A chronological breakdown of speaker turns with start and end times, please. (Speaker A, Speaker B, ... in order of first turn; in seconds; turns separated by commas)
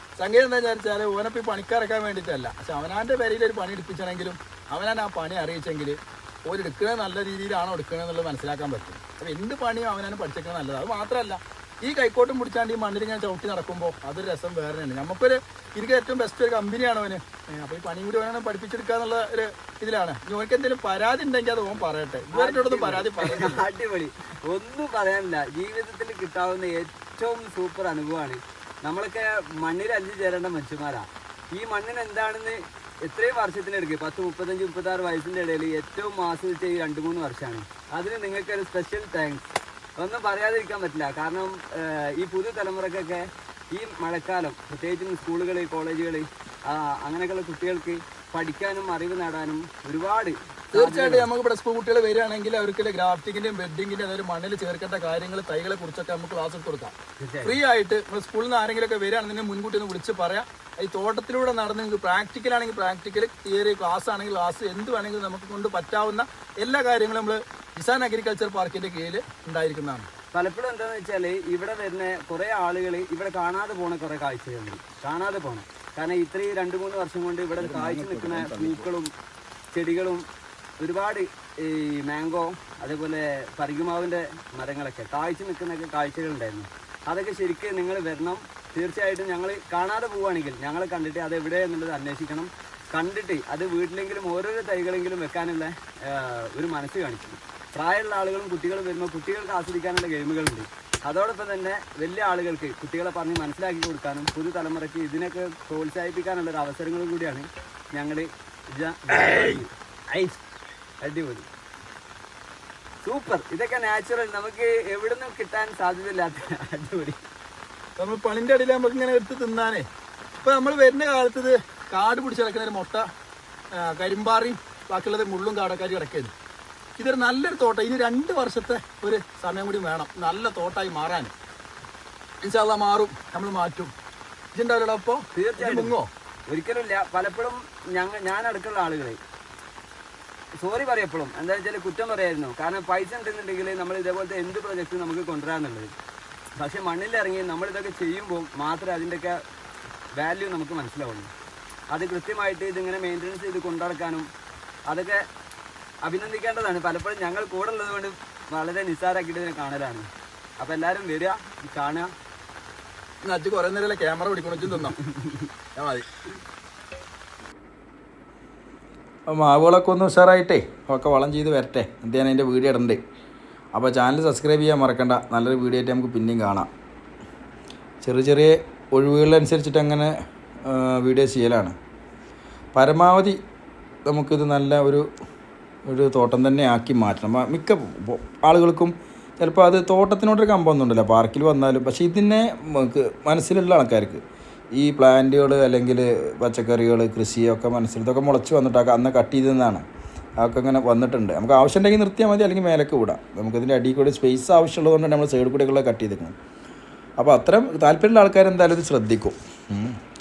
Speaker A: 0.2-23.6, Speaker B: 22.3-51.3, Speaker A: 50.7-70.1, Speaker B: 57.2-57.6, Speaker B: 70.3-79.1, Speaker C: 77.6-78.8, Speaker B: 79.7-80.2, Speaker B: 80.8-110.4, Speaker B: 111.0-111.5, Speaker B: 113.0-117.2, Speaker A: 118.0-119.8, Speaker A: 120.4-123.0, Speaker A: 123.8-126.3, Speaker A: 127.0-131.3, Speaker A: 132.4-133.9, Speaker A: 134.5-136.1, Speaker B: 135.3-135.9, Speaker B: 136.5-139.2, Speaker B: 140.6-145.9, Speaker B: 146.6-149.4, Speaker B: 150.2-151.3, Speaker B: 151.9-154.3, Speaker B: 154.9-155.2, Speaker B: 156.0-160.1, Speaker B: 160.6-162.1, Speaker A: 163.2-165.0, Speaker A: 165.8-166.0, Speaker C: 169.3-173.0, Speaker C: 173.7-176.7, Speaker C: 178.0-180.1, Speaker C: 180.6-181.7, Speaker C: 182.7-183.4, Speaker C: 184.1-185.1, Speaker C: 185.8-194.2, Speaker C: 194.8-199.8, Speaker C: 200.4-206.3, Speaker C: 207.2-209.9